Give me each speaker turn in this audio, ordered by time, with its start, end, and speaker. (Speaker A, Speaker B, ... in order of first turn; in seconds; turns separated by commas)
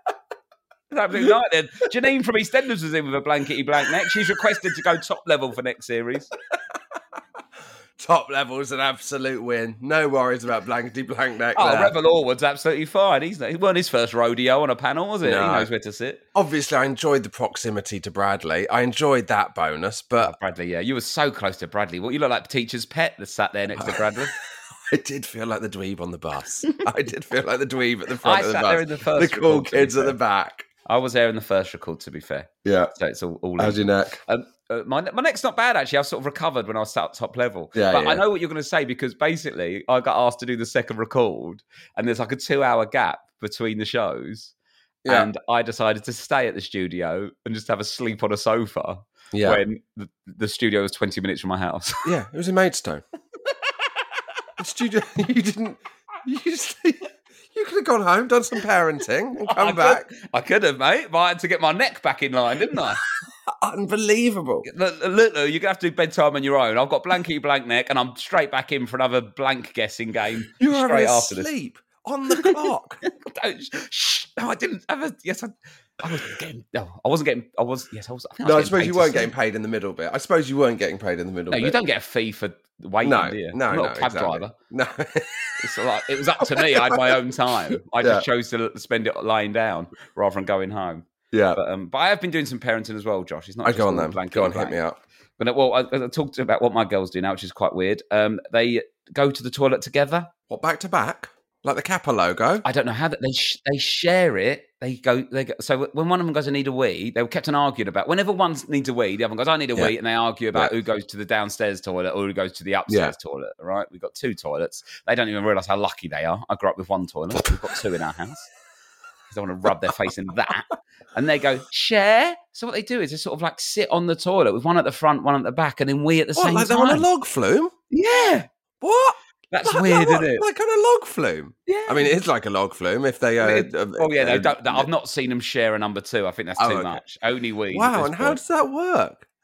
Speaker A: 0.9-6.3, Speaker B: 8.0-11.9, Speaker A: 11.5-16.2, Speaker B: 15.2-15.7, Speaker B: 16.3-20.3, Speaker A: 20.2-24.3, Speaker B: 23.8-24.1, Speaker B: 24.9-30.7, Speaker A: 28.2-30.2, Speaker A: 30.9-44.5, Speaker B: 32.6-32.9, Speaker B: 33.6-34.2, Speaker B: 37.7-38.2, Speaker B: 45.0-45.3, Speaker A: 45.1-52.1, Speaker B: 49.3-49.6, Speaker B: 52.0-53.0, Speaker B: 54.6-60.1, Speaker A: 59.4-63.0, Speaker B: 63.5-64.7, Speaker A: 64.6-71.5, Speaker B: 70.6-73.0, Speaker A: 73.2-79.3, Speaker B: 78.4-81.8, Speaker A: 81.5-84.5, Speaker B: 83.0-85.6, Speaker A: 85.6-94.8, Speaker B: 86.5-87.1, Speaker B: 88.0-88.2, Speaker B: 91.3-91.6, Speaker B: 93.6-95.0, Speaker A: 95.4-100.3, Speaker B: 100.5-102.6, Speaker A: 102.6-118.5, Speaker B: 112.9-113.1, Speaker A: 119.3-127.1, Speaker B: 126.3-127.7, Speaker A: 127.9-128.5, Speaker B: 128.8-134.9, Speaker A: 129.5-130.4, Speaker A: 131.7-132.1, Speaker A: 133.4-138.4, Speaker B: 136.6-137.0, Speaker B: 137.7-139.2